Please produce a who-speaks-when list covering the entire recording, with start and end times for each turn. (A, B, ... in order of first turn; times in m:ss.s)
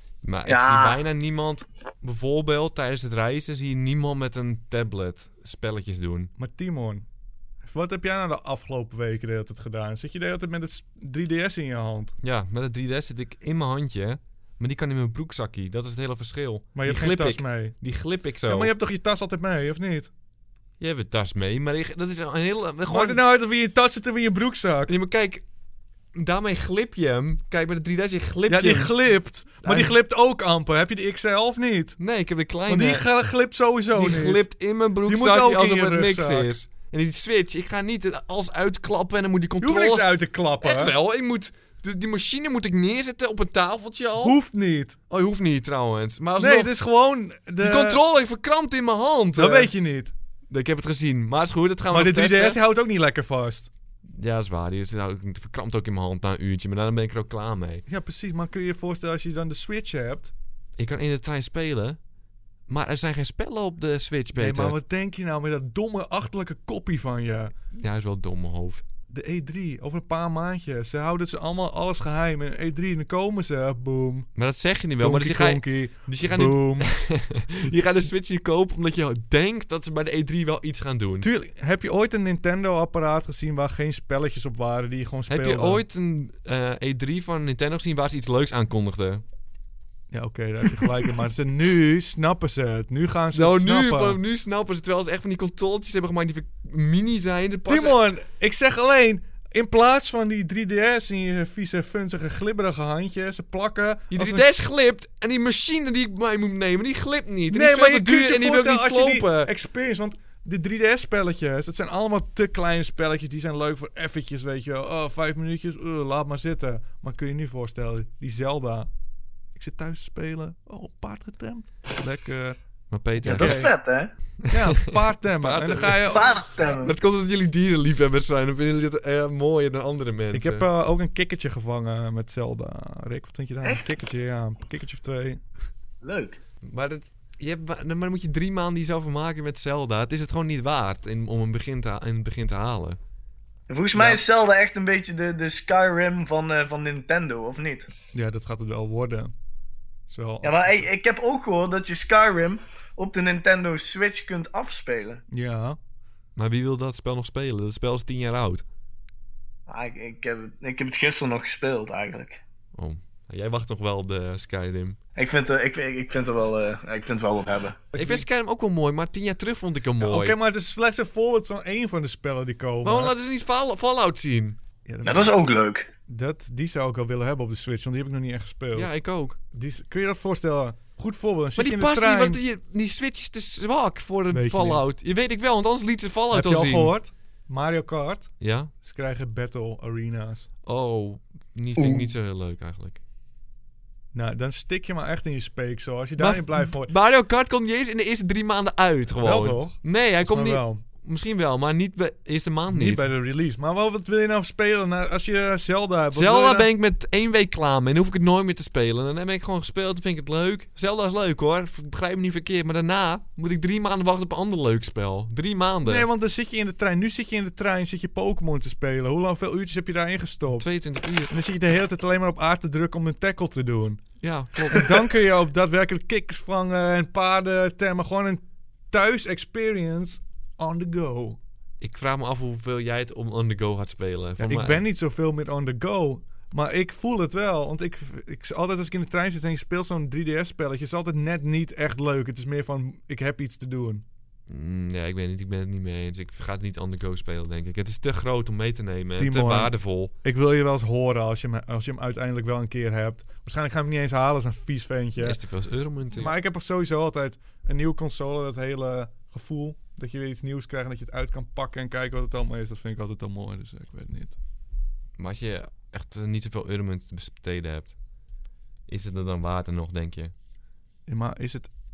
0:00.2-0:06.3 A
0:00.4-0:01.0 B
0:06.4-0:07.0 C
0:07.6-0:12.1 C
0:12.2-0:18.7 A
0:16.7-0:17.8 C
0:18.4-0:20.1 C
0:20.8-0:23.2 A
0:22.9-0:24.9 C
0:24.9-0:25.4 A
0:26.1-0:29.0 A
0:28.5-0:32.0 C
0:29.6-0:30.0 A
0:32.0-0:33.1 A
0:32.7-0:34.5 C
0:34.0-0:44.4 A
0:35.0-0:36.5 C
0:39.6-0:41.0 C
0:44.2-0:45.0 C
0:45.1-0:46.7 A
0:46.4-0:48.0 C
0:47.6-0:49.7 A
0:49.4-0:50.1 C
0:50.5-0:52.6 A
0:51.9-0:53.7 C
0:54.0-0:57.8 A
0:57.9-1:00.3 C
1:00.8-1:02.0 A
1:02.7-1:04.8 A
1:04.4-1:07.5 C
1:07.7-1:08.8 A
1:09.1-1:14.3 C
1:14.4-1:21.3 A
1:15.0-1:16.9 C
1:21.2-1:25.8 C
1:25.3-1:29.2 A
1:30.1-1:34.2 C
1:33.3-1:38.0 A
1:37.7-1:44.4 C
1:44.1-1:49.5 A
1:47.5-1:58.9 C
1:59.6-2:02.6 C
2:02.9-2:03.6 A
2:03.2-2:03.7 C
2:03.3-2:04.1 B
2:04.4-2:10.7 A
2:04.5-2:06.4 C
2:06.1-2:06.9 B
2:10.3-2:15.4 C
2:16.0-2:16.4 B
2:16.6-2:23.0 A
2:23.7-2:27.9 B
2:23.9-2:24.2 C
2:28.1-2:29.3 C
2:30.1-2:30.9 C
2:30.4-2:35.2 B
2:35.3-2:35.8 C
2:36.4-2:38.6 A
2:39.7-2:42.4 B
2:42.7-2:45.0 A
2:45.2-2:47.8 B
2:47.9-2:48.3 C
2:48.0-2:50.4 A
2:50.0-2:53.1 C
2:52.8-2:54.6 A
2:54.9-2:55.4 C
2:55.0-2:55.9 B
2:56.1-2:58.9 C
2:58.7-2:59.4 A
2:59.5-3:02.4 C
3:01.6-3:07.0 A
3:04.3-3:04.8 C
3:06.3-3:10.5 C
3:08.4-3:08.7 A
3:10.6-3:13.0 A
3:11.8-3:12.1 C
3:14.1-3:16.9 C
3:16.2-3:23.1 A
3:19.2-3:20.8 C
3:22.7-3:26.7 C
3:26.1-3:36.1 A
3:35.8-3:40.7 C
3:40.5-3:41.3 A
3:41.3-3:44.0 C
3:44.2-3:45.1 A
3:44.7-3:51.4 C
3:51.8-3:54.8 A
3:54.4-4:04.0 C
4:04.5-4:10.1 A
4:09.2-4:15.4 C
4:15.2-4:16.3 A
4:16.1-4:24.4 C
4:25.2-4:28.0 A
4:28.9-4:30.3 A
4:31.1-4:31.7 C